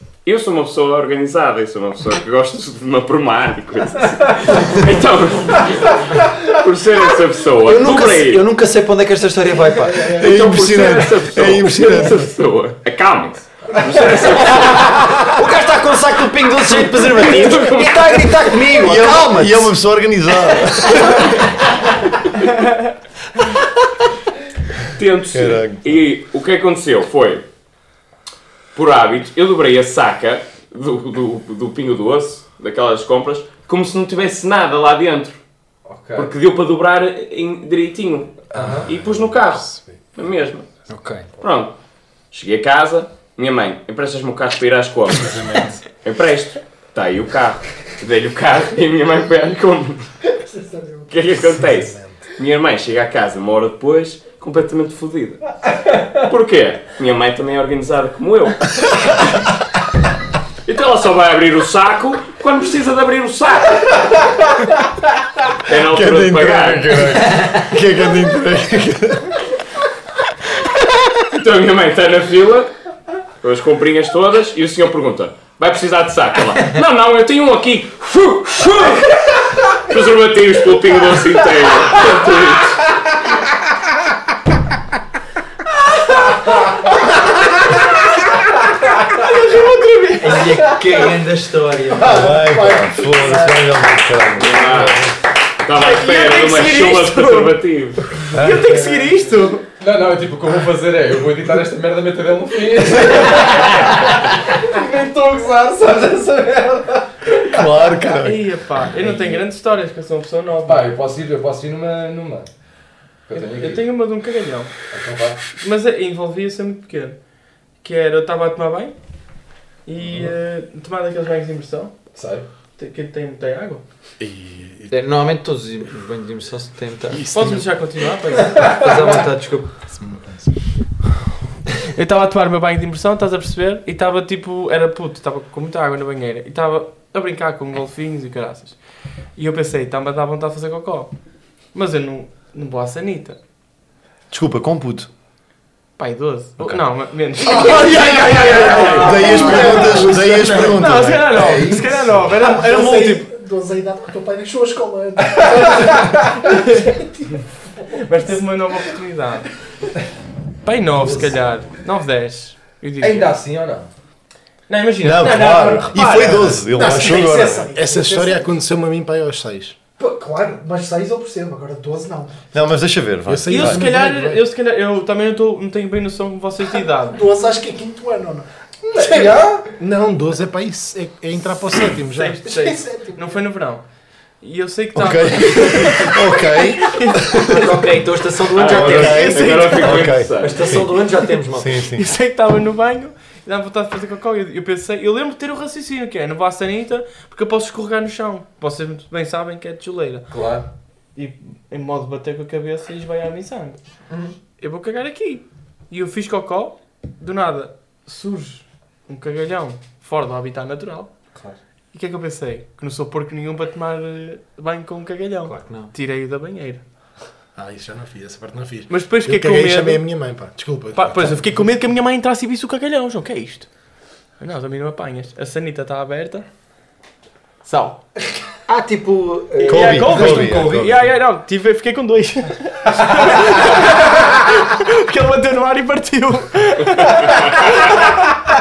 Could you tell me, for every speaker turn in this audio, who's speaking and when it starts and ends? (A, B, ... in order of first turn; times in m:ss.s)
0:00.2-0:08.4 A
0:07.6-0:10.2 B
0:10.0-0:15.3 A
0:10.1-0:12.3 C
0:13.7-0:14.3 D
0:14.3-0:19.7 B
0:16.6-0:18.7 A
0:18.8-0:21.5 C
0:24.9-0:27.4 A
0:25.3-0:26.0 C
0:28.7-0:35.4 A
0:35.8-0:36.3 D
0:36.1-0:40.7 A
0:38.5-0:38.9 D
0:38.5-0:38.8 B
0:40.9-0:41.3 B
0:41.4-0:41.8 A
0:42.3-0:50.1 A
0:45.2-0:45.8 E
0:50.4-0:51.1 F
0:51.1-0:55.6 A
0:51.3-0:52.2 E
0:56.1-0:59.3 A
1:00.6-1:04.2 A
1:05.6-1:07.4 A
1:05.7-1:09.3 C
1:11.3-1:12.7 A
1:13.4-1:22.9 A
1:29.0-1:30.7 G
1:30.2-1:32.4 B
1:31.9-1:34.4 F
1:32.0-1:35.1 C
1:34.4-1:38.2 A
1:35.7-1:37.6 G
1:38.3-1:39.6 G
1:39.8-1:47.7 D
1:47.4-1:48.6 C
1:48.0-1:50.8 G
1:50.6-1:52.5 D
1:53.3-1:53.8 D
1:53.3-1:54.7 G
1:54.9-1:55.4 D
1:55.6-1:57.2 G
1:57.8-1:59.0 G
1:59.8-2:02.0 G
2:00.0-2:00.3 D
2:02.1-2:02.4 D
2:02.8-2:03.8 G
2:04.2-2:04.9 E
2:04.9-2:07.3 B
2:07.1-2:07.8 E
2:07.3-2:08.8 G
2:08.5-2:09.1 D
2:08.6-2:09.8 B
2:09.9-2:10.6 E
2:11.9-2:18.8 G
2:19.4-2:21.1 G
2:21.7-2:23.4 G
2:24.3-2:25.1 C
2:26.0-2:33.3 G
2:27.5-2:30.8 F
2:28.4-2:29.7 D
2:28.9-2:31.4 C
2:29.5-2:30.7 E
2:31.3-2:32.3 D
2:32.4-2:37.9 F
2:35.3-2:36.3 D
2:36.5-2:36.9 G
2:37.9-2:39.5 G
2:40.6-2:43.3 G
2:41.0-2:41.3 D
2:43.0-2:43.9 D
2:44.7-2:46.5 G
2:45.0-2:47.7 C
2:46.0-2:48.5 F
2:47.6-2:49.8 E
2:50.0-2:52.4 F
2:52.5-2:53.8 C
2:53.2-2:54.4 E
2:53.4-2:57.2 G
2:57.0-2:59.4 F
2:58.9-2:59.7 D
2:59.8-3:02.4 E
3:02.1-3:03.8 G
3:02.4-3:03.4 F
3:04.4-3:07.6 G
3:04.9-3:07.7 C
3:07.4-3:09.3 B
3:08.5-3:10.8 A
3:08.6-3:12.1 C
3:08.8-3:10.2 G
3:10.3-3:11.8 B
3:11.9-3:20.3 G
3:20.3-3:20.7 D
3:21.1-3:23.8 G
3:24.1-3:24.4 D
3:24.6-3:31.1 G
3:31.9-3:36.8 G
3:35.4-3:35.9 B
3:37.5-3:41.7 E
3:38.9-3:40.0 G
3:40.9-3:43.7 G
3:44.4-3:46.4 G
3:47.6-3:48.0 G
3:48.7-3:50.1 B
3:49.6-3:58.3 G
3:49.7-3:51.0 C
3:49.9-3:51.1 D